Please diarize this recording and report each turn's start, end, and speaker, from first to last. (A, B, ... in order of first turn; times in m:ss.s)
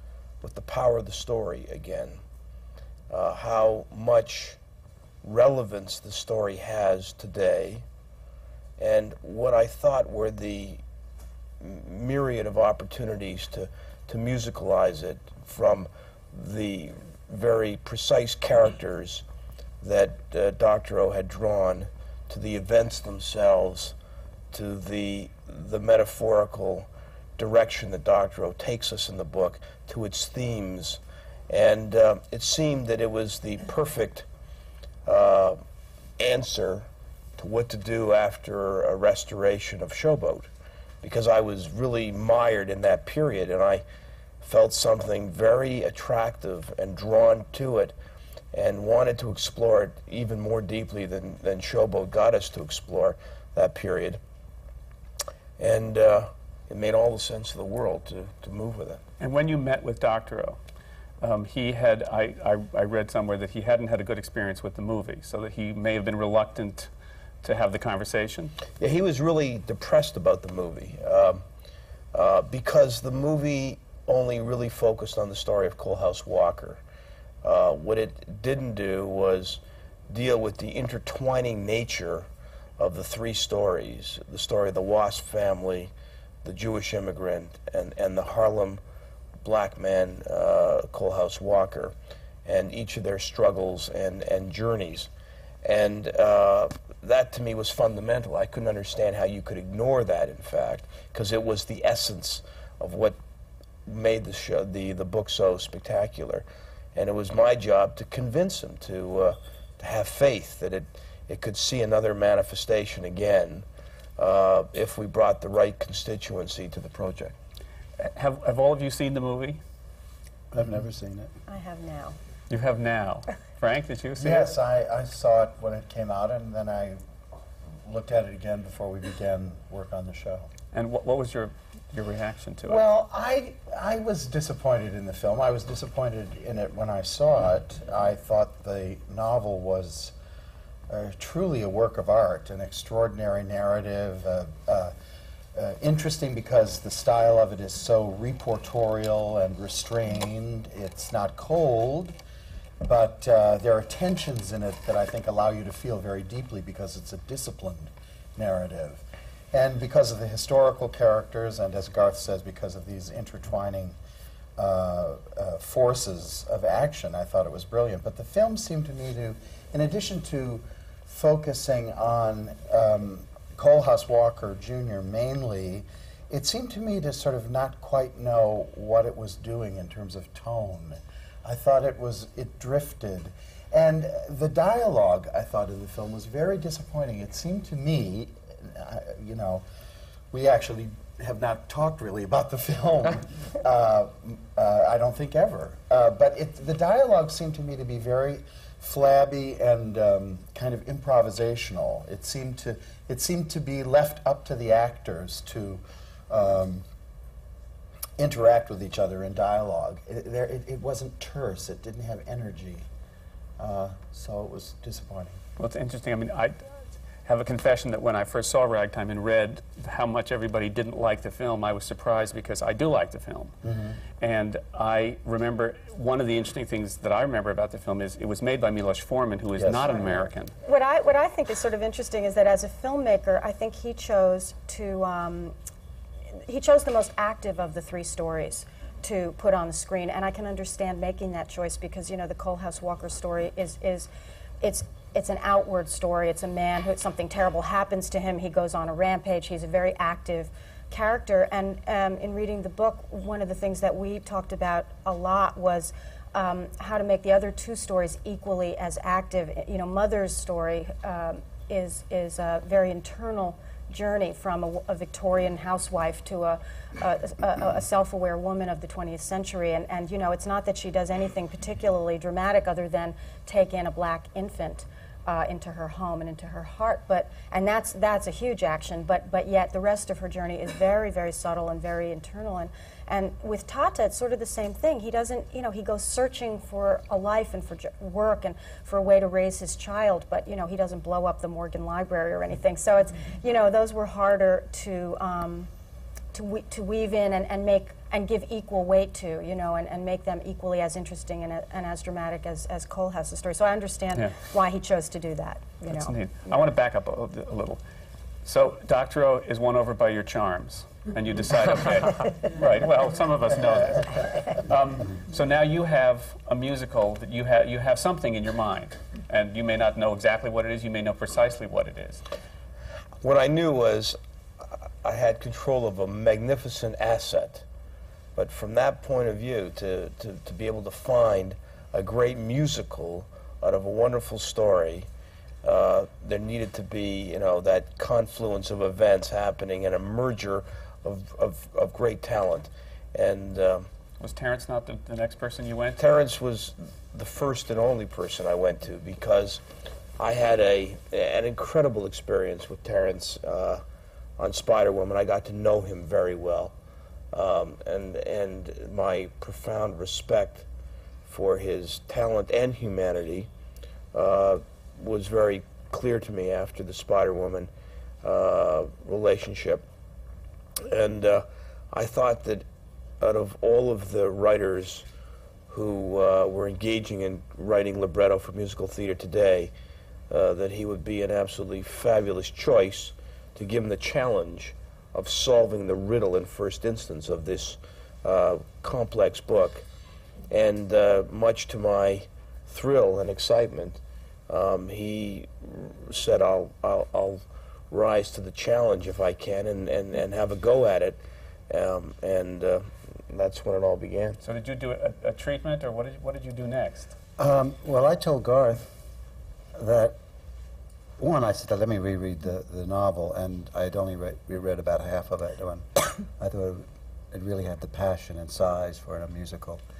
0:00.4-0:02.2 A
0:03.1-0:04.6 A
0:05.2-0:07.8 A
0:08.8-0:10.8 A
0:11.6-0:19.2 A
0:19.8-0:23.9 A
0:24.5-0:34.2 A
0:35.0-0:35.6 A
0:36.2-0:36.9 A
0:37.4-0:40.5 A
0:41.0-0:43.8 A
0:44.4-0:47.9 A
0:48.5-0:54.2 A
0:55.6-0:59.0 A
0:59.2-1:00.6 B
1:01.2-1:06.9 B
1:07.4-1:08.5 B
1:08.8-1:11.4 A
1:12.1-1:16.8 A
1:17.4-1:22.3 A
1:22.8-1:25.9 A
1:26.4-1:28.8 A
1:29.4-1:31.9 A
1:32.4-1:35.1 A
1:35.6-1:43.2 A
1:43.8-1:53.6 A
1:54.2-1:57.4 A
1:58.0-1:59.6 B
2:00.5-2:01.3 C
2:01.5-2:02.1 D
2:02.5-2:04.5 B
2:04.2-2:07.0 E
2:07.8-2:10.5 E
2:10.7-2:12.8 B
2:12.6-2:20.1 E
2:20.9-2:24.9 E
2:25.6-2:32.1 E
2:32.8-2:44.0 E
2:44.6-3:09.6 E
3:10.3-3:26.8 E
3:28.2-3:32.8 E
3:33.6-3:35.4 E
3:35.6-3:43.5 B
3:43.6-3:44.0 E
3:44.2-3:50.5 B
3:49.6-3:50.2 E
3:50.6-3:55.5 D
3:56.4-4:04.1 D
4:04.6-4:55.7 D
4:56.3-5:06.1 D
5:04.1-5:04.4 B
5:05.8-5:07.8 B
5:08.4-5:22.2 B
5:23.2-5:24.2 A
5:25.0-5:27.6 A
5:28.4-5:35.1 A
5:35.6-5:43.9 A
5:44.2-5:46.0 B
5:46.0-5:49.6 A
5:50.2-5:53.8 A
5:54.4-5:56.7 A
5:57.3-6:00.6 A
6:01.2-6:03.5 A
6:04.1-6:07.7 A
6:08.2-6:09.9 A
6:10.8-6:12.6 A
6:13.2-6:15.0 A
6:15.7-6:19.7 A
6:20.3-6:29.8 A
6:30.5-6:44.4 A
6:44.4-6:47.1 B
6:47.4-6:48.8 C
6:49.7-6:50.2 C
6:51.2-6:59.8 C